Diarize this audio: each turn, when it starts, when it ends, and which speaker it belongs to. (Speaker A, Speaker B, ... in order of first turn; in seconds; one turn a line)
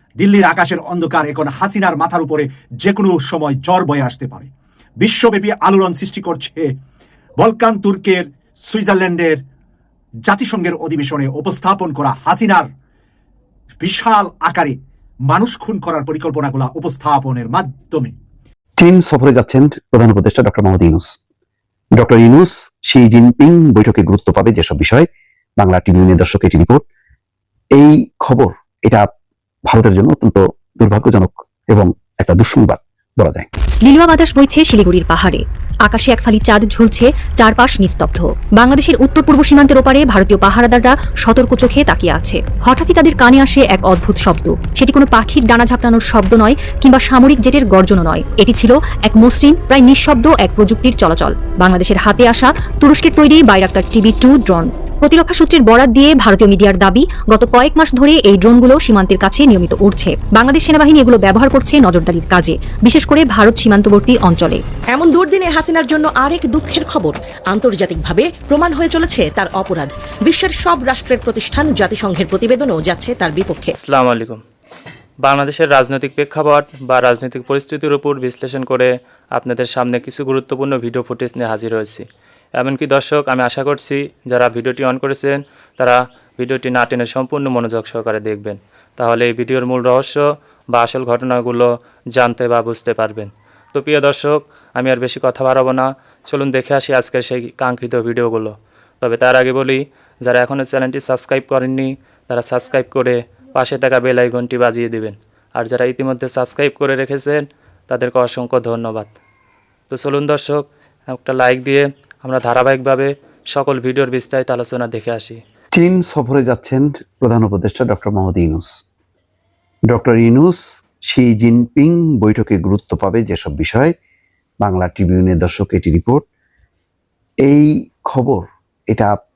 Speaker A: 0.2-6.7
Speaker A: 7.4-9.4
Speaker A: 10.3-12.7
Speaker A: 13.8-14.8
Speaker A: 15.3-18.1
Speaker B: 18.8-21.1
Speaker B: 22.0-25.1
Speaker B: 25.6-26.8
Speaker B: 27.8-29.0
Speaker B: 29.7-33.5
Speaker C: 33.8-64.6
Speaker D: 64.9-73.7
Speaker E: 73.8-74.4
Speaker E: 75.2-82.0
Speaker E: 82.6-109.1
Speaker E: 109.9-115.4
Speaker B: 115.7-118.8
Speaker B: 119.9-123.9
Speaker B: 124.6-126.2
Speaker B: 127.4-129.1